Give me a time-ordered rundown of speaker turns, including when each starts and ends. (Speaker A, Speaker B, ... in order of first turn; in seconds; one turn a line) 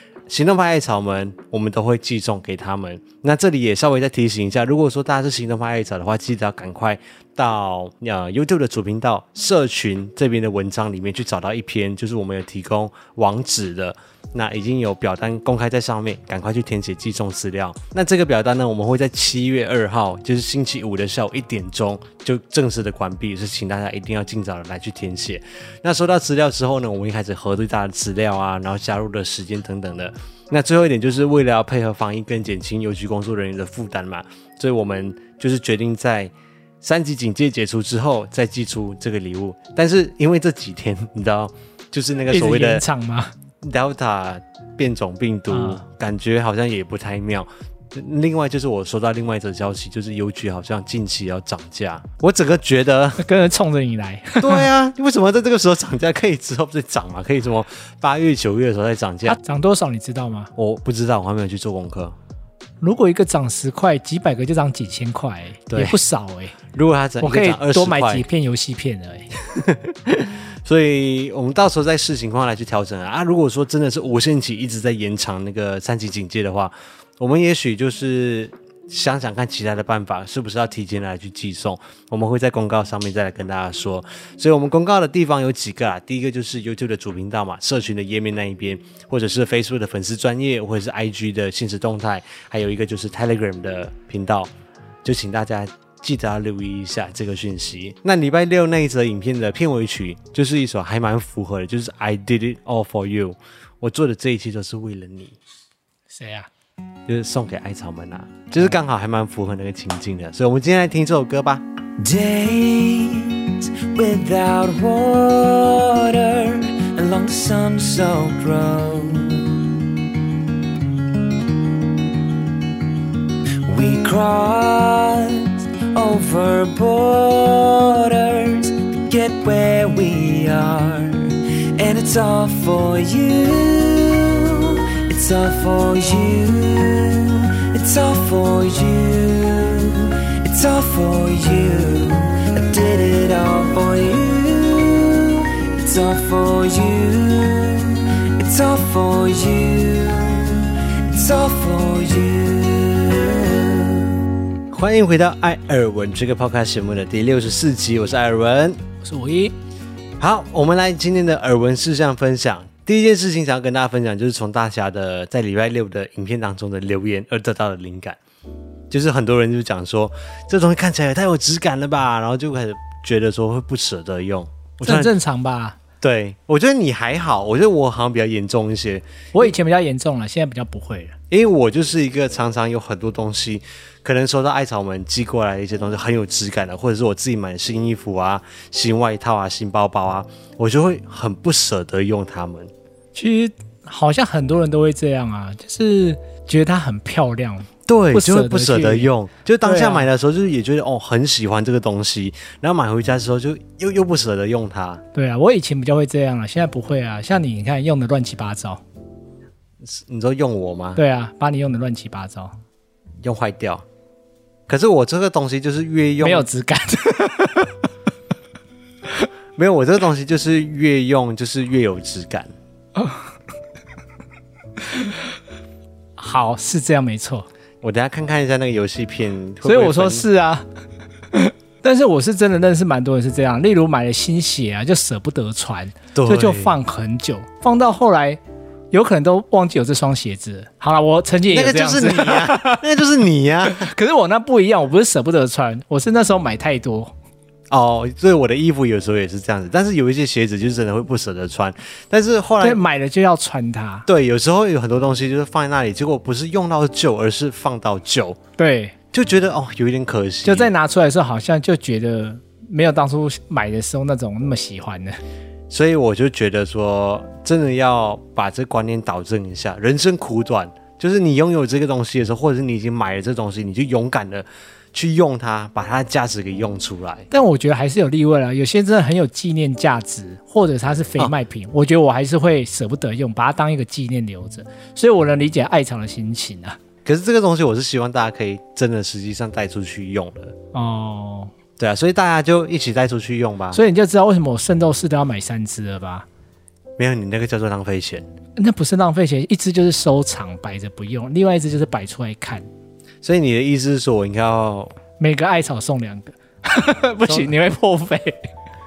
Speaker A: 0.3-42.8
Speaker B: 42.3-43.3
Speaker A: 43.6-53.2
Speaker B: 45.5-45.8
Speaker B: 53.2-54.7
Speaker A: 54.4-59.4
Speaker B: 59.2-60.5
Speaker A: 60.6-62.1
Speaker B: 62.8-66.6
Speaker A: 65.7-66.0
Speaker A: 66.7-68.3
Speaker B: 67.2-69.3
Speaker A: 69.4-94.5
Speaker A: 95.0-105.4
Speaker B: 106.1-106.5
Speaker A: 107.1-111.6
Speaker C: 112.0-119.8
Speaker C: 123.6-154.2
Speaker A: 154.7-158.8
Speaker B: 159.0-159.5
Speaker A: 160.2-168.2
Speaker A: 168.9-175.1
Speaker B: 174.8-175.8
Speaker A: 176.0-179.5
Speaker B: 179.3-181.2
Speaker A: 181.3-192.7
Speaker B: 193.2-199.1
Speaker A: 197.9-205.0
Speaker B: 199.6-200.1
Speaker B: 205.1-208.8
Speaker A: 209.8-211.0
Speaker B: 211.0-212.5
Speaker A: 213.2-213.8
Speaker A: 214.7-216.5
Speaker B: 216.2-217.7
Speaker A: 219.6-222.5
Speaker B: 226.2-227.5
Speaker A: 227.8-230.2
Speaker B: 229.6-230.7
Speaker B: 231.3-238.4
Speaker A: 236.2-236.8
Speaker B: 238.9-242.9
Speaker A: 241.5-243.9
Speaker B: 243.6-247.1
Speaker A: 247.7-252.8
Speaker B: 252.6-254.1
Speaker A: 254.1-258.4
Speaker B: 258.6-258.9
Speaker A: 259.1-260.7
Speaker B: 260.4-265.2
Speaker A: 265.7-277.3
Speaker B: 277.3-286.8
Speaker A: 287.1-290.6
Speaker B: 290.7-291.5
Speaker A: 291.8-293.8
Speaker B: 293.7-296.3
Speaker A: 297.0-298.3
Speaker B: 298.6-302.7
Speaker A: 303.2-305.0
Speaker B: 305.2-308.4
Speaker A: 307.3-307.5